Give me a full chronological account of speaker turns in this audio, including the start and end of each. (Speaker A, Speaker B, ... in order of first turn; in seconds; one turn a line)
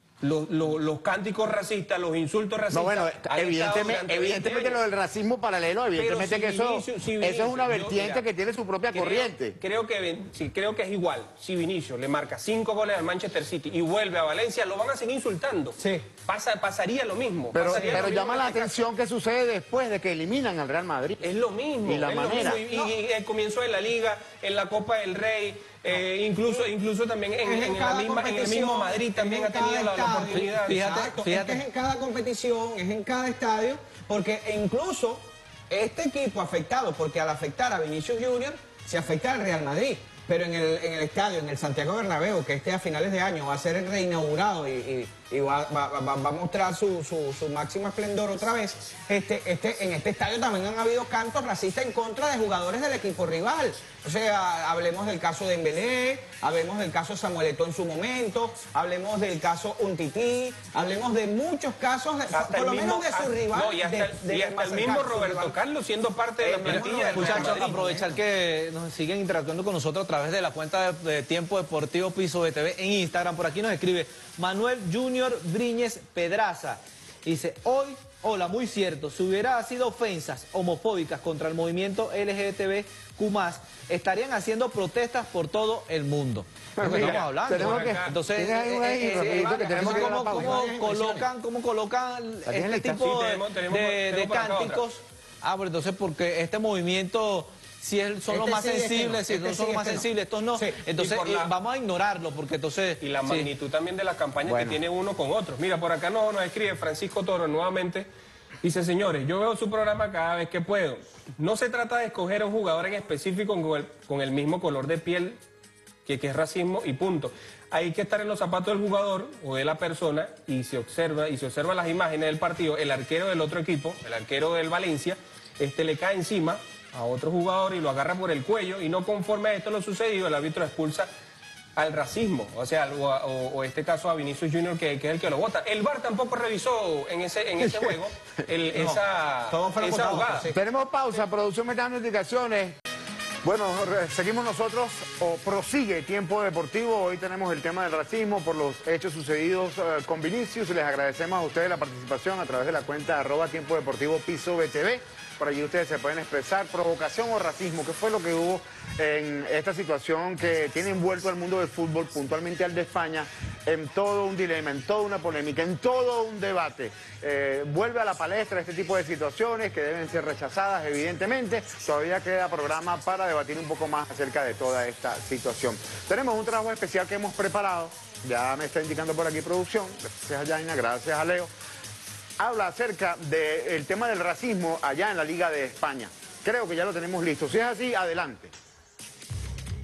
Speaker A: 0.2-4.8
Speaker B: 2.7-9.6
Speaker A: 6.0-8.2
Speaker A: 8.9-18.9
Speaker C: 15.8-16.1
Speaker B: 17.5-21.3
Speaker C: 17.7-18.0
Speaker A: 21.2-30.8
Speaker B: 21.8-22.6
Speaker C: 22.7-22.9
Speaker C: 27.4-65.6
Speaker D: 30.3-31.6
Speaker A: 62.3-67.8
Speaker C: 66.4-68.1
Speaker D: 66.7-103.5
Speaker B: 86.8-90.7
Speaker A: 86.8-88.2
Speaker A: 89.1-89.7
Speaker C: 89.6-91.3
Speaker B: 92.5-93.1
Speaker A: 92.9-94.8
Speaker C: 98.3-100.8
Speaker A: 101.0-101.5
Speaker A: 103.0-108.1
Speaker B: 104.4-104.8
Speaker A: 108.6-115.4
Speaker A: 116.1-131.1
Speaker A: 131.8-140.5
Speaker B: 137.6-138.0
Speaker C: 138.8-140.6
Speaker B: 140.5-142.8
Speaker B: 143.4-181.5
Speaker B: 182.4-188.5